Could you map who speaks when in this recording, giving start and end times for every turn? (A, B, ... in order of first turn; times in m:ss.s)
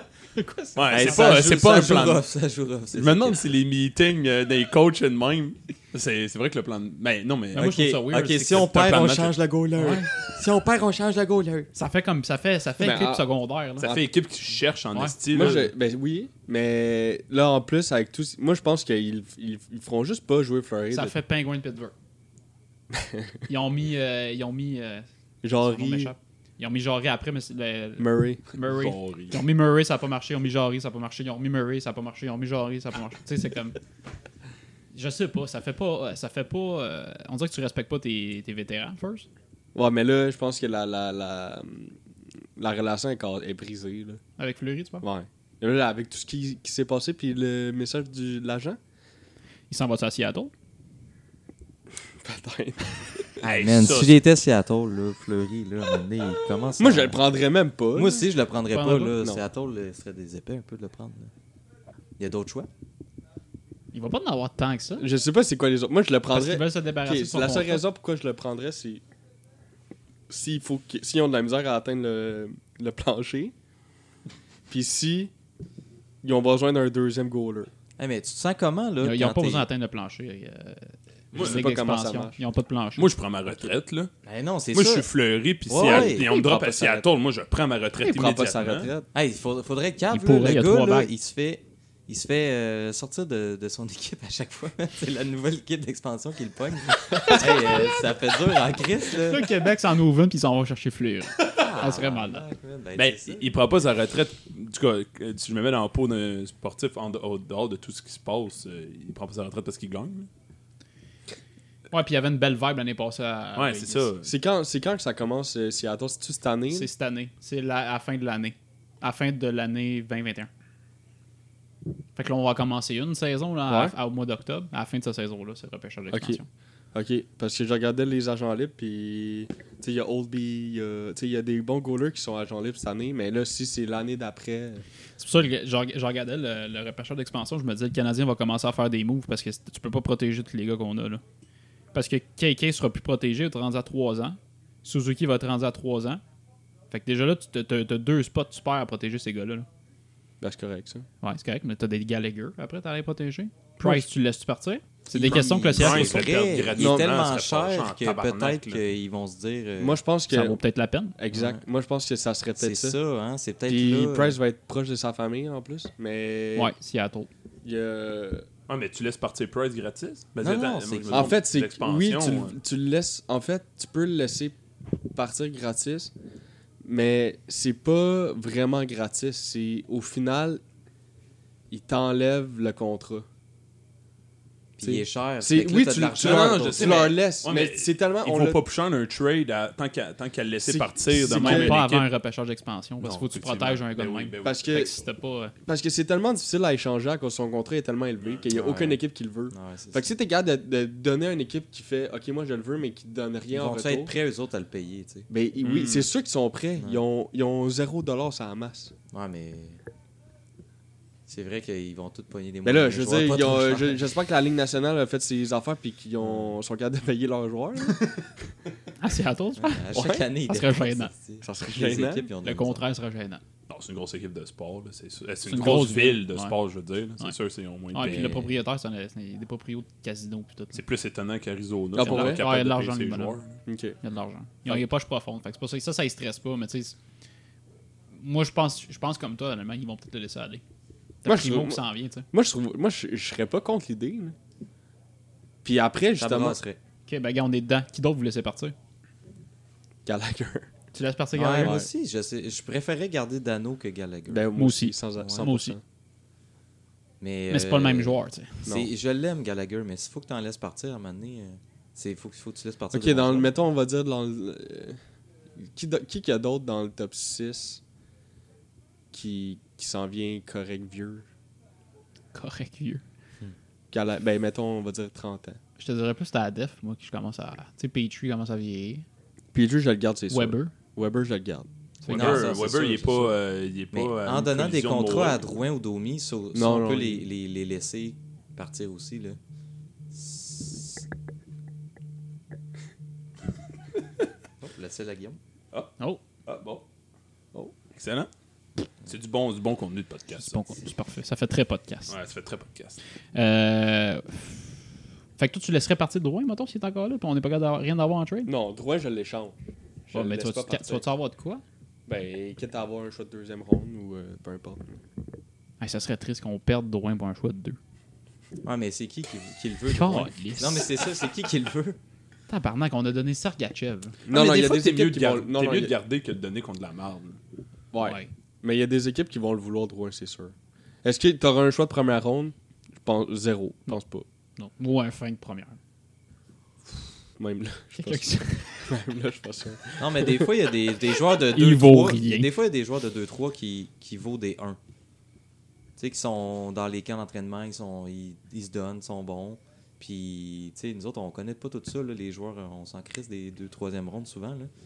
0:00.4-0:01.4 A
0:00.8-0:02.2 B
0:00.9-0:03.6 C
0:02.9-0:09.4 B
0:07.5-0:08.6 A
0:07.6-0:11.7 C
0:09.8-0:10.1 A
0:11.8-0:14.0 A
0:12.8-0:13.2 D
0:13.8-0:15.7 B
0:15.3-0:21.2 D
0:20.9-0:21.9 A
0:22.9-0:23.4 D
0:23.5-0:25.1 A
0:25.4-0:26.1 D
0:25.6-0:33.8 A
0:28.0-0:28.4 D
0:28.6-0:29.4 B
0:34.9-0:39.3 A
0:39.8-0:42.0 D
0:42.6-0:44.2 D
0:44.4-0:45.1 A
0:45.0-0:48.8 D
0:49.7-0:50.5 A
0:52.2-0:53.3 D
0:53.4-0:54.2 B
0:53.4-0:57.2 C
0:56.8-0:58.2 D
0:57.9-1:01.3 C
0:58.7-0:59.2 A
1:02.2-1:02.7 C
1:03.9-1:05.0 A
1:05.0-1:09.0 D
1:06.3-1:07.8 A
1:10.3-1:13.5 D
1:14.7-1:15.3 D
1:16.2-1:17.7 D
1:18.0-1:19.7 C
1:19.0-1:23.1 A
1:21.3-1:21.7 B
1:21.4-1:22.4 D
1:23.0-1:24.1 B
1:24.2-1:25.1 C
1:24.7-1:28.9 B
1:25.7-1:27.0 C
1:28.0-1:29.1 D
1:29.1-1:39.5 C
1:30.1-1:31.1 A
1:39.3-1:42.4 A
1:41.5-1:43.5 C
1:43.0-1:50.3 B
1:51.9-1:54.1 A
1:53.6-1:54.3 B
1:54.2-1:56.9 D
1:56.7-2:00.5 A
2:02.2-2:06.5 A
2:03.7-2:03.9 D
2:06.1-2:06.4 D
2:06.9-2:14.8 D
2:15.2-2:21.2 A
2:21.9-2:26.2 A
2:26.9-2:29.7 A
2:30.4-2:31.1 D
2:31.2-2:36.2 A
2:33.8-2:34.1 D
2:35.1-2:40.0 C
2:35.3-2:38.8 B
2:36.8-2:37.1 D
2:39.8-2:40.6 D
2:40.3-2:41.2 A
2:41.2-2:43.0 D
2:41.3-2:41.6 C
2:42.6-2:44.4 C
2:43.7-2:46.7 D
2:46.6-2:47.3 A
2:47.6-2:48.5 D
2:48.7-2:52.6 B
2:50.4-2:51.4 C
2:51.1-2:54.6 D
2:55.1-2:56.1 D
2:56.8-3:00.6 D
3:01.7-3:03.3 D
3:04.8-3:07.1 C
3:04.8-3:08.6 D
3:06.1-3:12.1 B
3:10.6-3:11.8 D
3:11.2-3:15.5 A
3:13.0-3:14.9 B
3:14.4-3:14.9 D
3:15.7-3:24.1 D
3:18.2-3:18.5 B
3:18.5-3:19.0 C
3:19.5-3:20.1 C
3:23.5-3:25.3 C
3:25.3-3:28.9 D
3:25.6-3:26.1 B
3:26.8-3:27.0 C
3:29.1-3:29.8 C
3:31.3-3:34.1 C
3:32.6-3:38.1 D
3:36.2-3:36.5 C
3:39.0-3:41.1 A
3:39.6-3:42.8 C
3:39.9-3:40.2 D
3:41.4-3:42.3 D
3:42.4-3:43.4 A
3:43.7-3:48.4 B
3:45.5-3:46.6 A
3:47.9-3:50.8 A
3:48.0-3:48.5 C
3:50.7-3:53.6 B
3:52.0-3:52.4 D
3:52.0-3:53.4 A
3:53.7-3:54.0 D
3:54.0-3:57.0 A
3:58.1-4:00.6 A
4:01.2-4:02.3 A
4:01.2-4:04.4 D
4:05.6-4:06.6 D
4:06.2-4:06.8 C
4:07.1-4:08.8 A
4:10.1-4:10.7 D
4:10.9-4:11.8 A
4:11.3-4:14.5 C
4:11.6-4:11.9 D
4:14.3-4:15.8 D
4:14.6-4:15.8 A
4:15.2-4:15.5 C
4:17.2-4:23.5 C
4:17.5-4:18.6 A
4:22.9-4:25.0 D
4:25.6-4:27.8 D
4:29.1-4:31.3 D
4:32.3-4:33.0 A
4:33.9-4:35.6 D
4:35.8-4:39.0 A
4:39.5-4:41.7 D
4:40.3-4:40.7 A
4:42.0-4:42.4 A
4:42.1-4:43.4 C
4:42.1-4:45.5 B
4:43.9-4:49.4 C
4:46.5-4:47.2 D
4:50.1-4:51.0 C
4:54.6-4:55.4 C
4:56.5-4:56.8 B
4:57.9-4:58.3 B
4:59.1-5:00.7 B
5:00.4-5:02.1 A
5:02.1-5:03.0 B
5:03.4-5:04.7 A
5:05.4-5:08.5 A
5:08.5-5:09.6 D
5:10.1-5:11.0 D
5:10.1-5:11.6 A
5:12.1-5:14.8 D
5:15.8-5:17.8 A
5:18.6-5:22.0 C
5:19.9-5:20.9 A
5:22.5-5:24.2 A
5:24.3-5:25.9 D
5:24.3-5:27.4 B
5:27.9-5:34.2 D
5:28.0-5:28.3 A
5:34.6-5:35.8 A
5:37.4-5:40.5 D
5:38.0-5:38.9 A
5:40.0-5:44.8 C
5:41.5-5:42.5 A
5:46.0-5:54.7 C